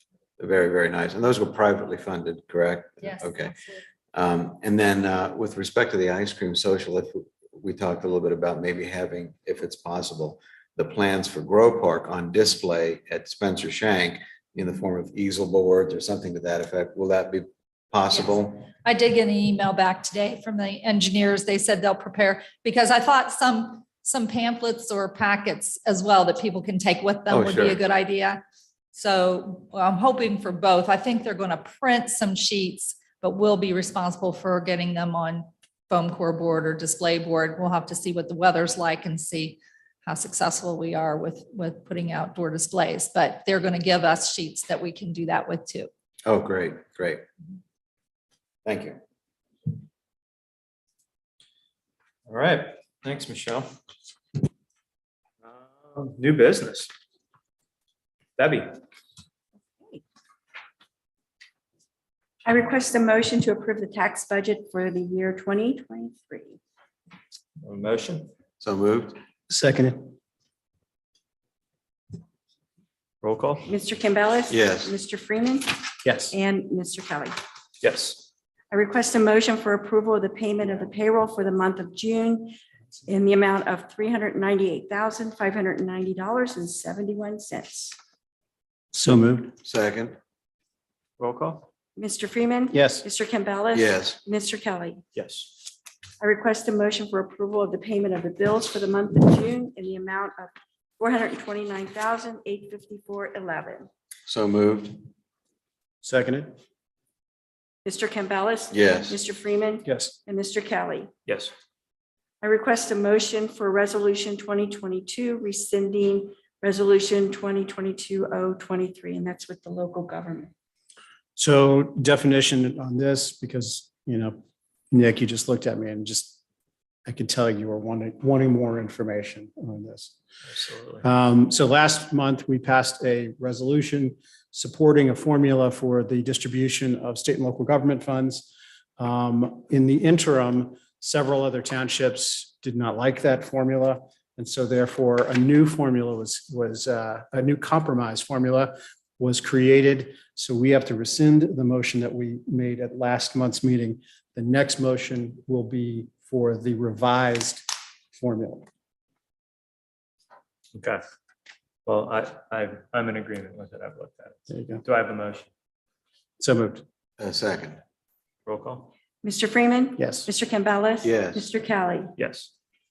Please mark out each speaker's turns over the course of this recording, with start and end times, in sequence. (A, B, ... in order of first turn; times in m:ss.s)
0:00.4-0:03.6 A
0:03.0-0:03.8 B
0:04.1-0:18.7 A
0:19.3-0:19.6 B
0:20.1-0:20.9 B
0:21.4-0:21.8 C
0:22.3-0:22.6 B
0:22.9-0:23.5 C
0:23.7-0:24.0 B
0:24.5-0:24.9 C
0:25.5-0:27.2 C
0:27.1-0:27.8 B
0:27.3-0:27.8 A
0:28.1-0:28.4 C
0:29.0-0:35.4 C
0:36.4-0:39.6 C
0:40.1-0:45.7 C
0:46.2-0:47.2 A
0:48.6-0:49.0 A
0:52.3-0:53.7 B
0:55.5-0:56.9 B
0:58.4-0:58.7 B
1:02.4-1:06.6 D
1:07.6-1:08.3 B
1:08.6-1:09.2 A
1:09.5-1:10.1 E
1:13.2-1:13.6 B
1:13.6-1:17.4 D
1:14.5-1:14.9 A
1:16.0-1:16.3 E
1:17.8-1:18.2 B
1:18.7-1:28.0 D
1:28.9-1:29.6 E
1:29.6-1:30.2 A
1:31.2-1:31.7 B
1:32.0-1:35.0 D
1:32.7-1:33.0 E
1:33.7-1:34.2 A
1:35.2-1:35.5 B
1:36.2-1:43.9 D
1:44.3-1:45.0 A
1:46.0-1:46.5 E
1:47.8-1:51.1 D
1:48.7-1:49.2 A
1:49.9-1:50.2 E
1:52.4-2:00.5 D
2:01.4-2:04.4 E
2:04.9-2:06.4 E
2:07.0-2:10.1 E
2:10.6-2:11.0 B
2:11.0-2:38.7 E
2:40.8-2:41.0 B
2:41.9-2:45.5 B
2:44.5-2:44.8 E
2:46.4-2:46.8 E
2:47.2-2:47.8 A
2:48.4-2:48.9 B
2:49.2-2:52.2 D
2:50.0-2:50.3 E
2:51.0-2:51.5 A
2:52.2-2:52.5 B